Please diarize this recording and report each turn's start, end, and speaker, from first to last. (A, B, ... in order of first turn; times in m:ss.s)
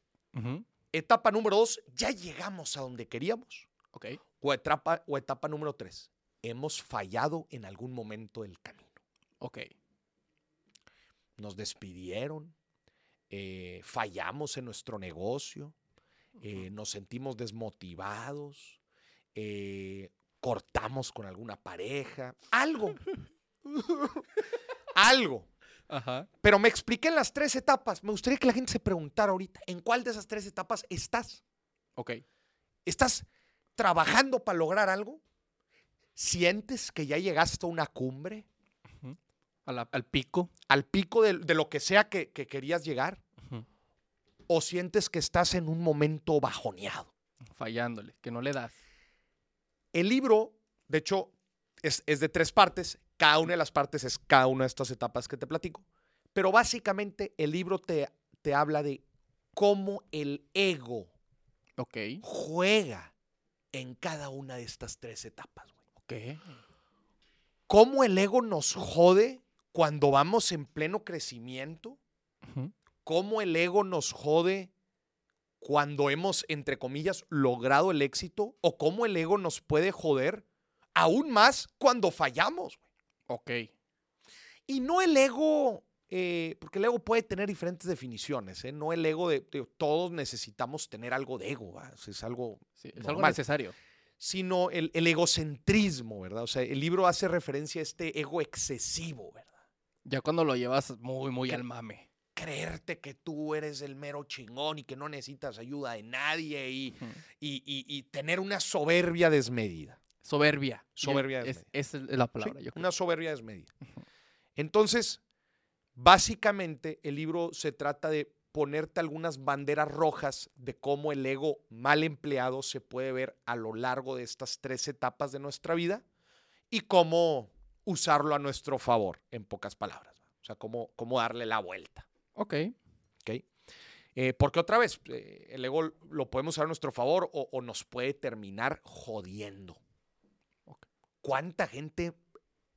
0:00.3-0:00.7 A
0:00.9-0:03.7 B
0:03.9-0:04.2 A
0:04.4-0:08.9 B
0:09.4-0:09.7 A
0:11.4-0:12.5 B
0:13.3-0:15.7 B
0:16.4-0:18.8 B
0:19.4-0:23.0 B
0:23.7-0:24.2 B
0:24.9-0:25.5 B
0:25.9-0:26.3 A
0:26.4-0:31.4 B
0:32.0-0:32.2 A
0:32.9-0:33.2 B
0:33.8-0:35.2 B
0:36.2-0:38.5 B
0:39.0-0:40.5 A
0:40.7-0:43.2 B
0:44.5-0:47.1 B
0:47.5-0:48.8 A
0:49.9-0:51.3 B
0:51.8-0:59.0 B
0:59.6-1:01.1 B
1:01.8-1:02.2 A
1:02.2-1:03.1 B
1:03.7-1:05.7 B
1:06.0-1:06.6 A
1:07.7-1:12.0 B
1:12.5-1:12.7 A
1:13.0-1:14.7 B
1:15.6-1:20.4 B
1:21.0-1:22.8 B
1:23.3-1:23.7 A
1:24.7-1:33.4 B
1:32.8-1:33.8 A
1:34.2-1:39.5 B
1:40.0-1:42.1 A
1:42.4-1:50.0 B
1:50.2-1:52.9 A
1:51.0-1:51.6 B
1:52.4-1:53.7 B
1:54.6-1:55.2 B
1:56.0-2:06.0 B
2:06.7-2:12.1 B
2:12.4-2:12.8 A
2:14.2-2:19.8 B
2:21.2-2:22.2 B